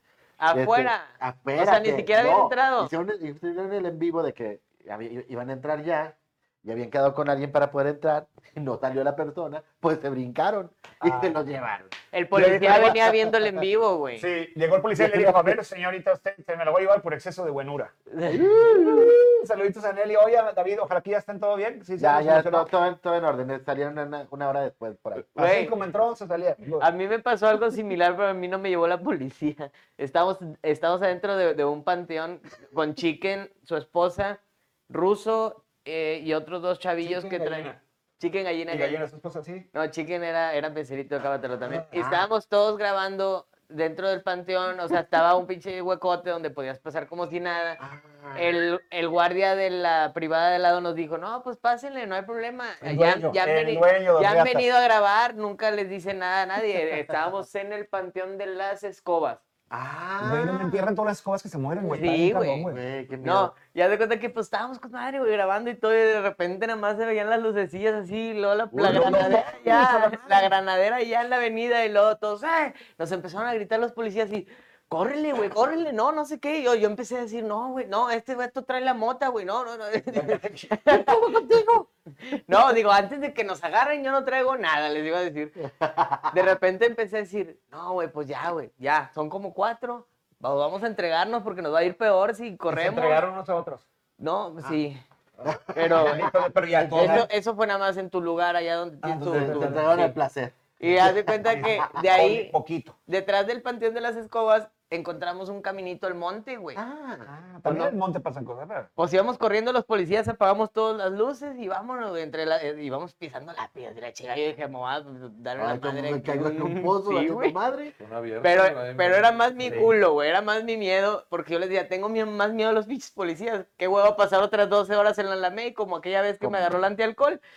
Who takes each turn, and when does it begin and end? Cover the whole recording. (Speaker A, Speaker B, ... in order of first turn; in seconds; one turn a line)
Speaker A: 0.4-2.9
Speaker B: 0.5-11.9
Speaker C: 11.0-11.3
Speaker A: 12.1-14.3
Speaker C: 12.3-13.0
Speaker B: 12.6-12.9
Speaker C: 14.2-22.7
Speaker B: 14.9-15.6
Speaker A: 18.1-18.7
Speaker B: 18.3-19.1
Speaker B: 22.0-25.2
Speaker A: 25.3-25.7
Speaker C: 25.4-26.9
Speaker A: 26.8-39.0
Speaker C: 37.0-37.8
Speaker C: 38.7-39.7
Speaker A: 39.7-47.8
Speaker C: 41.7-41.9
Speaker B: 47.8-48.4
Speaker A: 48.3-59.4
Speaker C: 52.8-54.7
Speaker B: 59.7-60.9
Speaker C: 60.2-62.8
Speaker A: 61.8-62.7
Speaker B: 62.7-63.5
Speaker A: 63.2-85.6
Speaker B: 68.7-69.5
Speaker C: 68.8-70.5
Speaker C: 80.1-80.7
Speaker B: 85.6-86.3
Speaker A: 86.3-93.2
Speaker C: 92.7-93.8
Speaker A: 94.2-95.0
Speaker B: 95.4-97.2
Speaker A: 95.7-96.3
Speaker C: 95.8-97.3
Speaker A: 96.9-100.1
Speaker C: 99.0-100.0
Speaker B: 99.2-101.9
Speaker A: 100.8-102.5
Speaker C: 100.8-103.0
Speaker A: 103.1-106.8
Speaker B: 106.8-107.3
Speaker C: 107.2-108.9
Speaker A: 107.6-107.9
Speaker A: 109.0-117.5
Speaker B: 115.6-117.9
Speaker D: 118.0-119.9
Speaker A: 118.4-127.4
Speaker C: 119.6-119.9
Speaker B: 126.4-126.8